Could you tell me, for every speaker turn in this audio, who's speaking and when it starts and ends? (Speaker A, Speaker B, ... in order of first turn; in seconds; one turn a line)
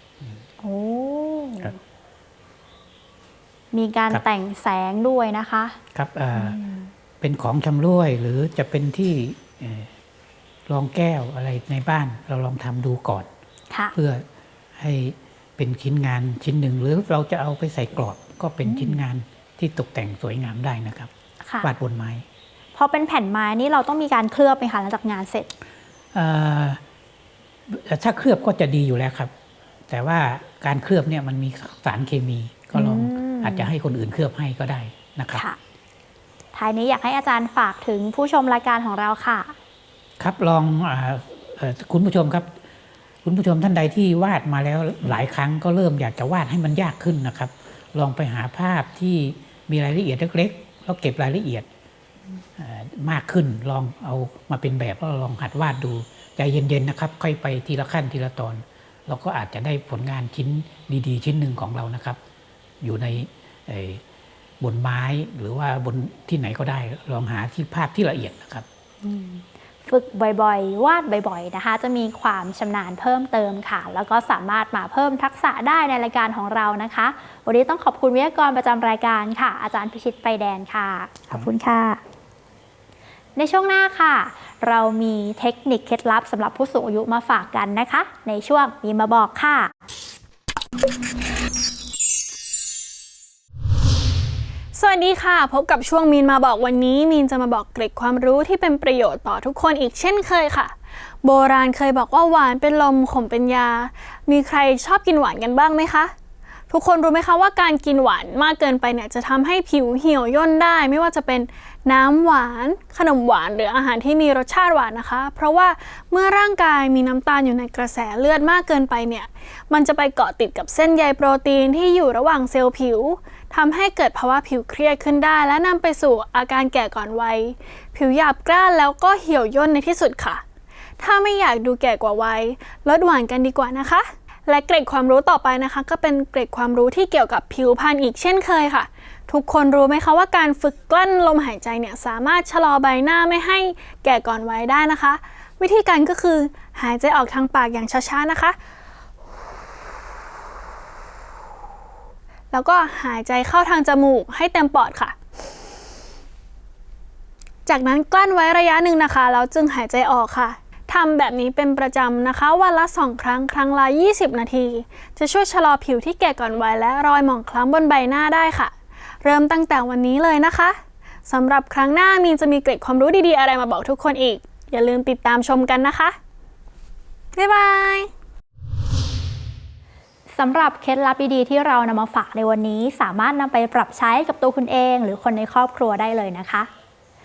Speaker A: 0.6-1.8
Speaker A: 3.7-5.8
Speaker B: 5.9-6.6
Speaker A: 6.3-6.9
Speaker B: 7.2-9.9
Speaker B: 10.7-13.3
Speaker B: 13.9-14.2
Speaker B: 14.8-21.1
Speaker A: 18.6-19.0
Speaker B: 21.6-22.2
Speaker A: 22.7-25.5
Speaker B: 26.1-26.8
Speaker B: 27.7-29.3
Speaker B: 29.9-35.4
Speaker A: 32.7-33.7
Speaker A: 36.5-39.5
Speaker B: 40.2-42.6
Speaker B: 43.2-51.7
Speaker B: 52.6-62.2
Speaker B: 62.8-64.0
Speaker B: 64.6-68.7
Speaker A: 69.0-82.0
Speaker A: 83.3-89.7
Speaker C: 94.7-106.1
Speaker C: 106.7-130.4
Speaker C: 131.0-148.6
Speaker C: 152.5-155.2
Speaker C: 157.7-176.2
Speaker C: 177.3-178.1
Speaker A: 180.3-186.7